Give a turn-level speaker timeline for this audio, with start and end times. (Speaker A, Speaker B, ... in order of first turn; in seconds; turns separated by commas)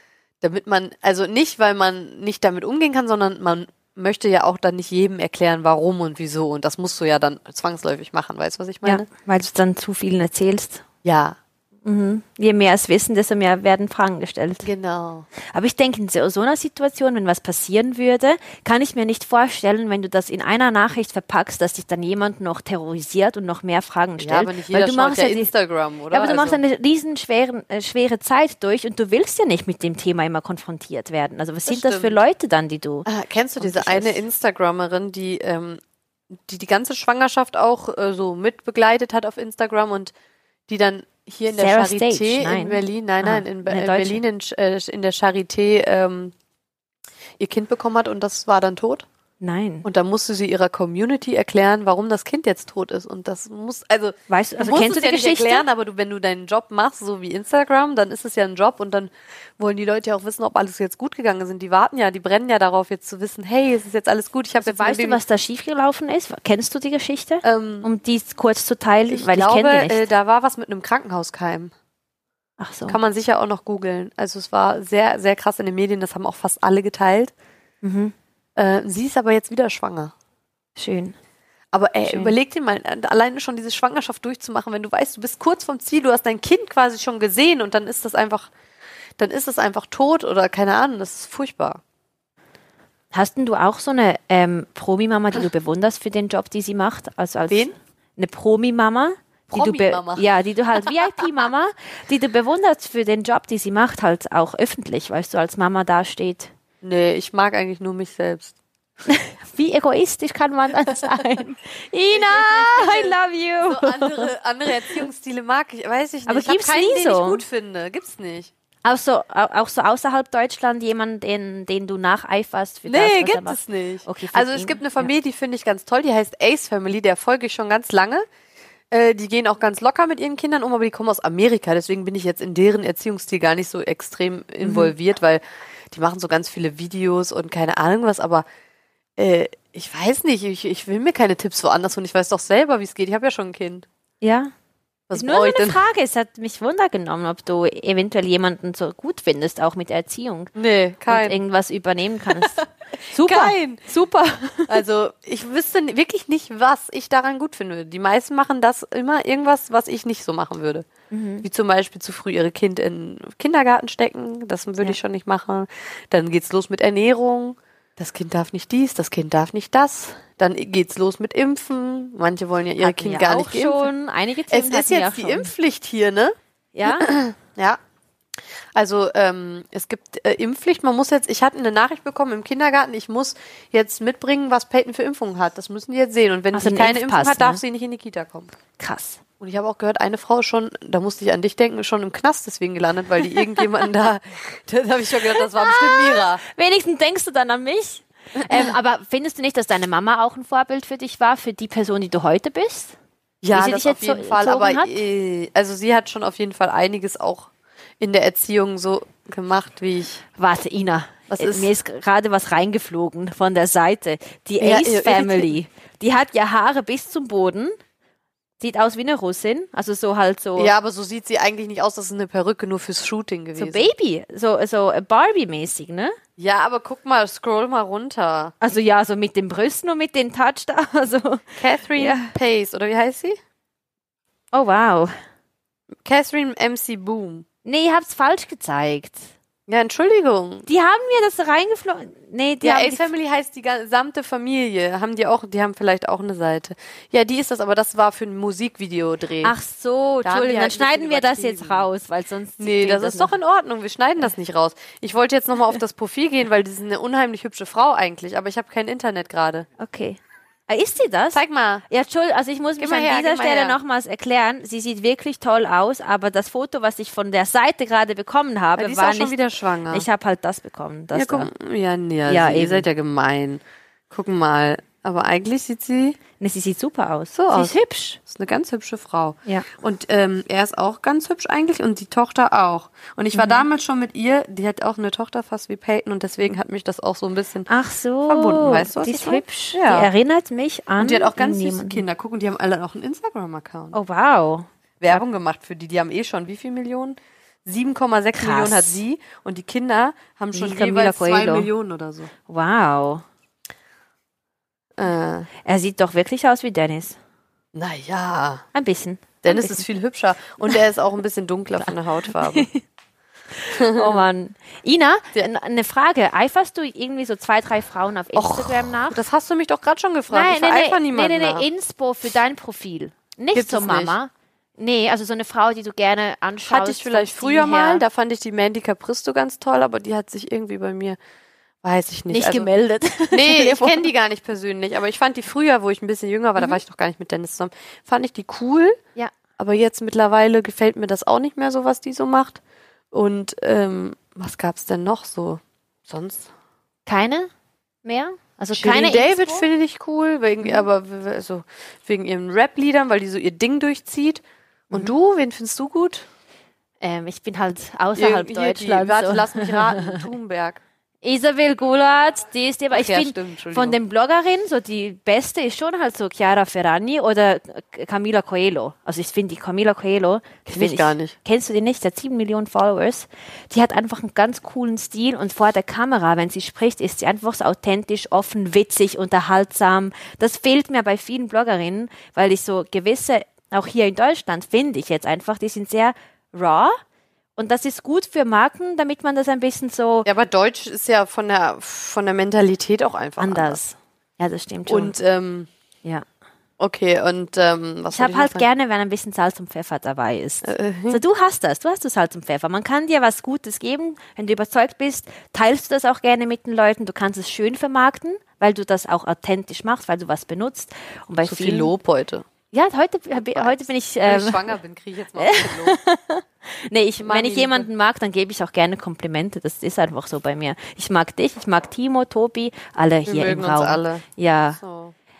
Speaker A: 0.4-9.1, Speaker B: 8.8-10.8, Speaker A: 11.0-11.4, Speaker B: 11.8-14.7, Speaker A: 14.6-15.3, Speaker B: 15.5-25.5, Speaker A: 24.2-26.6, Speaker B: 26.1-33.0, Speaker A: 31.7-32.2, Speaker A: 33.0-35.8, Speaker B: 33.6-34.2, Speaker A: 36.3-40.1, Speaker A: 40.7-46.3, Speaker B: 41.5-44.2, Speaker A: 47.4-49.0, Speaker B: 49.4-49.9, Speaker A: 49.8-65.2, Speaker B: 54.3-55.6, Speaker B: 64.6-70.1, Speaker A: 67.4-67.9, Speaker A: 69.1-71.7, Speaker B: 72.6-73.0, Speaker A: 72.9-77.3, Speaker B: 77.8-78.1, Speaker A: 78.6-80.1, Speaker B: 80.8-81.2, Speaker A: 81.7-88.5, Speaker B: 82.0-82.3, Speaker A: 89.2-91.8, Speaker B: 93.1-106.5, Speaker A: 99.5-100.3, Speaker A: 106.8-108.5, Speaker B: 109.1-114.3, Speaker A: 112.1-118.5, Speaker B: 116.3-117.4, Speaker B: 118.8-125.1, Speaker A: 122.9-128.2, Speaker A: 128.9-138.4, Speaker B: 134.6-134.9, Speaker A: 139.2-143.8, Speaker B: 144.2-144.5, Speaker A: 145.1-145.8, Speaker B: 145.1-150.5, Speaker A: 150.6-151.4, Speaker B: 151.1-154.8, Speaker A: 152.3-153.8, Speaker A: 154.7-160.9, Speaker B: 161.1-161.4, Speaker A: 161.4-173.9, Speaker B: 172.8-175.5, Speaker A: 174.5-177.8, Speaker B: 176.7-177.1, Speaker A: 178.7-188.6, Speaker B: 186.5-187.6, Speaker B: 188.8-189.2, Speaker A: 189.4-196.4, Speaker B: 195.3-202.9, Speaker A: 198.4-198.6, Speaker A: 203.4-207.5, Speaker B: 203.5-205.0, Speaker A: 208.0-210.2, Speaker B: 210.4-217.7, Speaker A: 211.3-211.7, Speaker A: 214.6-215.5, Speaker B: 218.6-220.7, Speaker A: 220.6-223.9, Speaker B: 223.6-226.2, Speaker A: 226.4-228.5, Speaker B: 228.6-232.3, Speaker A: 231.6-233.4, Speaker B: 234.5-235.1, Speaker A: 236.0-237.4, Speaker B: 237.6-239.3, Speaker A: 239.7-240.7, Speaker B: 240.7-243.1, Speaker A: 242.6-249.5, Speaker B: 249.4-253.3, Speaker A: 250.2-251.9, Speaker A: 252.6-259.6, Speaker B: 259.8-269.4, Speaker A: 261.3-261.8, Speaker A: 262.8-263.8, Speaker A: 268.8-270.1, Speaker B: 269.9-271.5, Speaker A: 271.1-276.2, Speaker B: 272.2-272.9, Speaker B: 276.4-278.2, Speaker A: 277.3-287.7, Speaker B: 283.3-283.6, Speaker B: 287.7-292.0, Speaker A: 288.2-290.1, Speaker A: 291.0-294.0, Speaker B: 293.9-295.2, Speaker A: 295.0-302.3, Speaker B: 298.4-299.0, Speaker B: 300.5-301.7, Speaker B: 302.5-303.2, Speaker A: 305.0-305.5, Speaker B: 305.6-307.2, Speaker A: 307.7-308.6, Speaker B: 308.7-309.8, Speaker A: 309.4-312.7, Speaker B: 311.8-312.8, Speaker B: 313.5-319.2, Speaker A: 313.7-314.2, Speaker A: 318.3-321.6, Speaker B: 320.3-328.0, Speaker A: 323.5-324.1, Speaker A: 326.7-331.2, Speaker A: 331.8-332.7, Speaker B: 332.3-334.1, Speaker A: 333.3-339.0, Speaker A: 339.6-342.6, Speaker A: 343.1-346.5, Speaker B: 347.1-347.5, Speaker B: 348.0-349.7, Speaker A: 348.7-356.2, Speaker B: 357.0-360.2, Speaker A: 358.1-360.8, Speaker B: 361.2-387.0, Speaker A: 362.9-364.0, Speaker A: 370.6-371.4, Speaker B: 387.6-390.3, Speaker A: 390.2-393.8, Speaker B: 393.4-395.1, Speaker A: 394.9-395.7, Speaker A: 396.8-398.6, Speaker B: 398.1-411.9, Speaker A: 400.6-401.2, Speaker A: 411.4-412.5, Speaker B: 412.7-414.7, Speaker A: 413.4-416.0, Speaker B: 415.4-424.8, Speaker A: 417.2-417.9, Speaker A: 423.2-425.1